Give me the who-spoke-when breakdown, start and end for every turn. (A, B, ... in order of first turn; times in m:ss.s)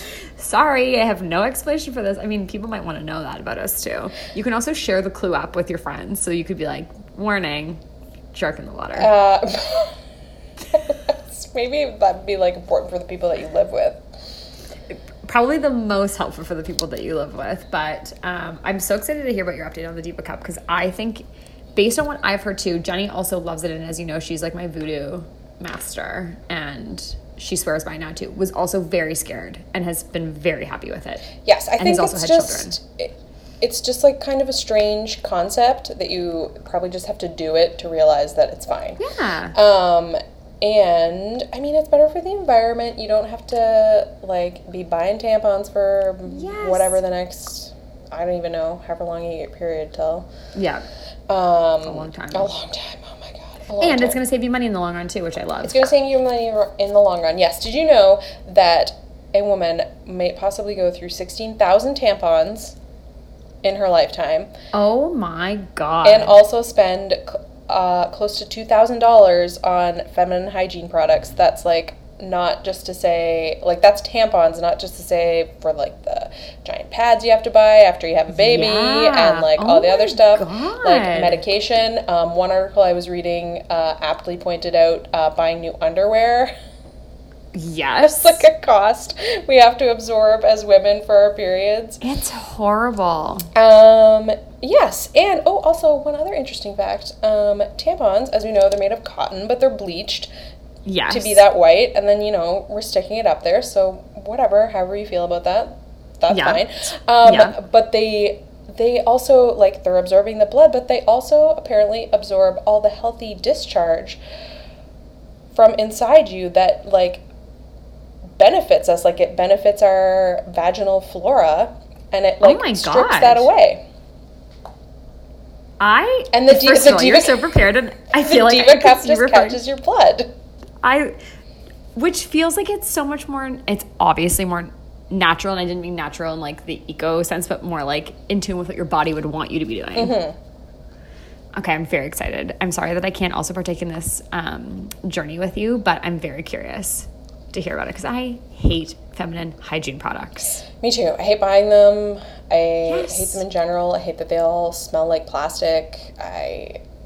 0:00.4-0:07.8 A
0:08.3-0:09.1 A
0:09.0-0:10.0 B
0:10.7-0:14.0 B
0:14.9-0:21.2 A
0:21.8-0:31.3 A
0:31.4-0:39.0 B
0:31.8-0:32.8 A
0:39.0-0:39.6 A
0:39.5-0:50.3 B
0:46.3-0:47.0 A
0:50.5-0:50.8 A
0:51.3-0:54.2 B
0:51.8-0:52.5 A
0:53.8-0:55.9 A
0:55.6-1:02.8 B
1:03.6-1:04.5 B
1:04.7-1:06.4 A
1:06.0-1:26.5 B
1:18.3-1:21.4 A
1:27.5-1:28.4 A
1:28.0-1:32.0 B
1:32.0-1:33.5 A
1:33.5-1:40.3 B
1:40.8-1:41.4 A
1:41.1-1:54.2 B
1:46.3-1:46.6 A
1:47.2-1:47.6 A
1:55.5-1:57.2 B
1:58.3-2:03.8 B
2:02.4-2:03.5 A
2:05.8-2:09.6 A
2:06.3-2:07.4 B
2:08.2-2:10.3 B
2:10.8-2:11.2 A
2:11.9-2:20.2 A
2:20.0-2:20.4 B
2:21.5-2:30.6 A
2:30.8-2:36.8 B
2:32.9-2:33.4 A